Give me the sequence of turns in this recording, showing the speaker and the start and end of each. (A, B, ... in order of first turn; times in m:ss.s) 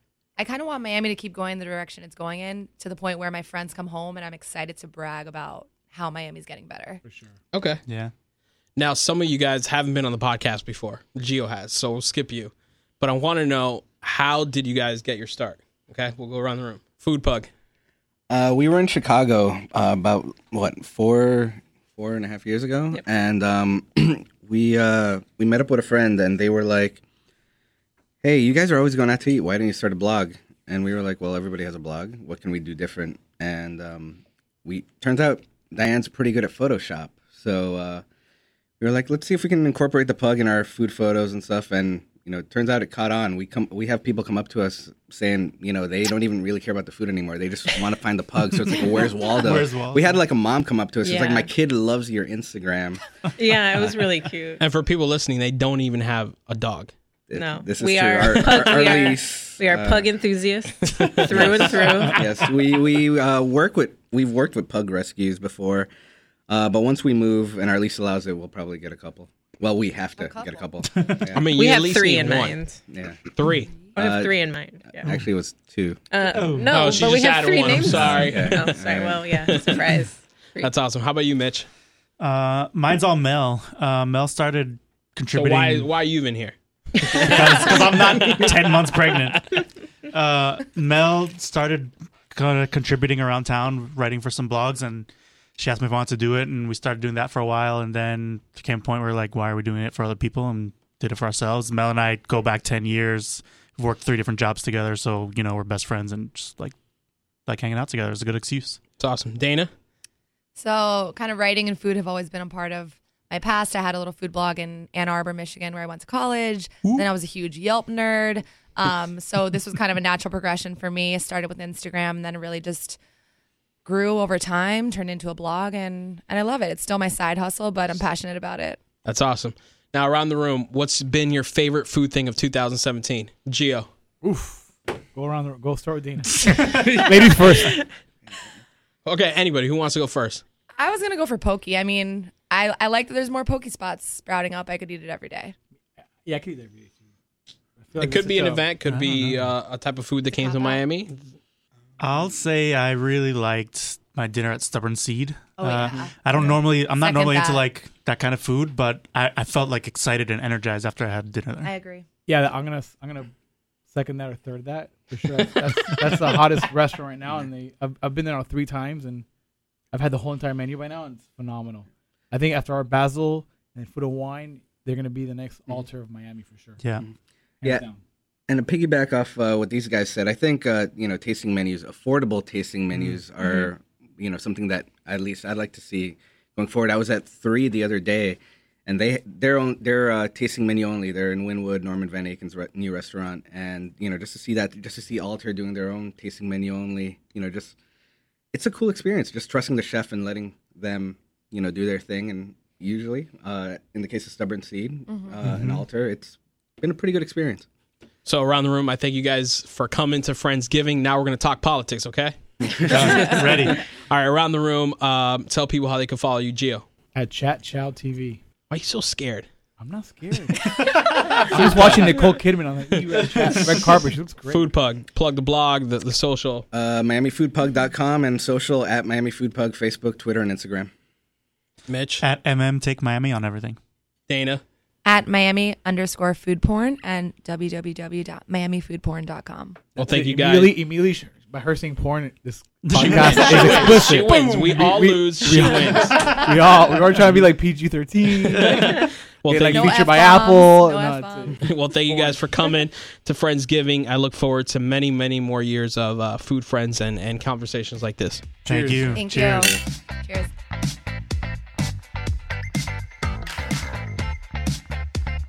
0:00.4-0:07.0 A
0:07.0-0:07.3 B
0:07.5-0:07.8 C
0:07.9-0:08.1 D
0:08.8-0:17.5 C
0:18.3-0:27.0 E
0:28.2-0:38.0 E
0:38.8-0:53.0 E
0:49.4-0:50.2 D
0:51.0-0:51.5 F
0:53.3-0:54.6 F
0:54.6-0:56.9 C
0:57.3-1:00.1 E
0:57.3-1:02.2 F
1:00.8-1:02.1 C
1:01.3-1:05.9 E
1:06.5-1:11.4 E
1:10.2-1:10.8 A
1:10.9-1:11.2 D
1:11.3-1:12.6 C
1:11.5-1:12.8 F
1:12.9-1:13.2 E
1:13.3-1:13.7 C
1:13.9-1:14.3 E
1:14.0-1:15.1 F
1:14.9-1:16.0 E
1:16.1-1:20.7 F
1:16.3-1:17.1 D
1:16.7-1:18.8 C
1:17.8-1:19.4 E
1:19.5-1:19.7 C
1:20.6-1:21.7 C
1:22.2-1:25.9 D
1:25.3-1:29.0 C
1:27.1-1:46.7 D
1:47.5-1:48.8 D
1:49.0-1:49.7 C
1:50.6-2:03.0 A
2:03.8-2:08.8 A
2:09.0-2:13.9 C
2:14.2-2:17.8 B
2:16.4-2:17.1 D
2:19.0-2:20.4 C
2:20.8-2:25.5 A
2:26.2-2:27.0 B
2:27.8-2:28.7 B
2:28.0-2:31.3 C
2:28.9-2:29.5 D
2:30.3-2:30.8 A
2:32.0-2:41.7 D
2:35.6-2:37.7 A
2:41.6-2:42.0 A
2:42.3-2:43.3 B
2:43.9-2:49.2 B
2:49.9-2:56.8 B
2:56.8-2:57.1 D
2:57.6-2:58.0 B
2:58.5-3:17.8 E
3:18.5-3:27.6 E
3:25.1-3:25.4 A
3:25.4-3:25.8 D
3:28.2-3:32.4 C
3:32.6-3:33.2 E
3:32.8-3:33.8 D
3:32.9-3:33.3 C
3:33.1-3:33.4 A
3:34.0-3:36.8 C
3:37.1-3:38.4 B
3:38.7-3:39.5 C
3:39.8-3:44.7 B
3:40.6-3:41.9 D
3:41.5-3:42.1 C
3:42.9-3:43.6 C
3:44.5-3:46.6 C
3:46.7-3:50.9 E
3:51.9-3:52.2 C
3:52.2-3:53.8 D
3:54.3-3:54.6 C
3:55.0-3:59.8 A
4:00.0-4:00.8 C
4:00.0-4:12.5 B
4:02.8-4:03.9 D
4:03.0-4:06.3 C
4:03.5-4:04.2 A
4:06.2-4:06.5 D
4:08.5-4:10.0 C
4:09.6-4:11.6 A
4:11.6-4:18.4 C
4:18.6-4:19.2 B
4:18.6-4:19.8 D
4:19.1-4:20.5 A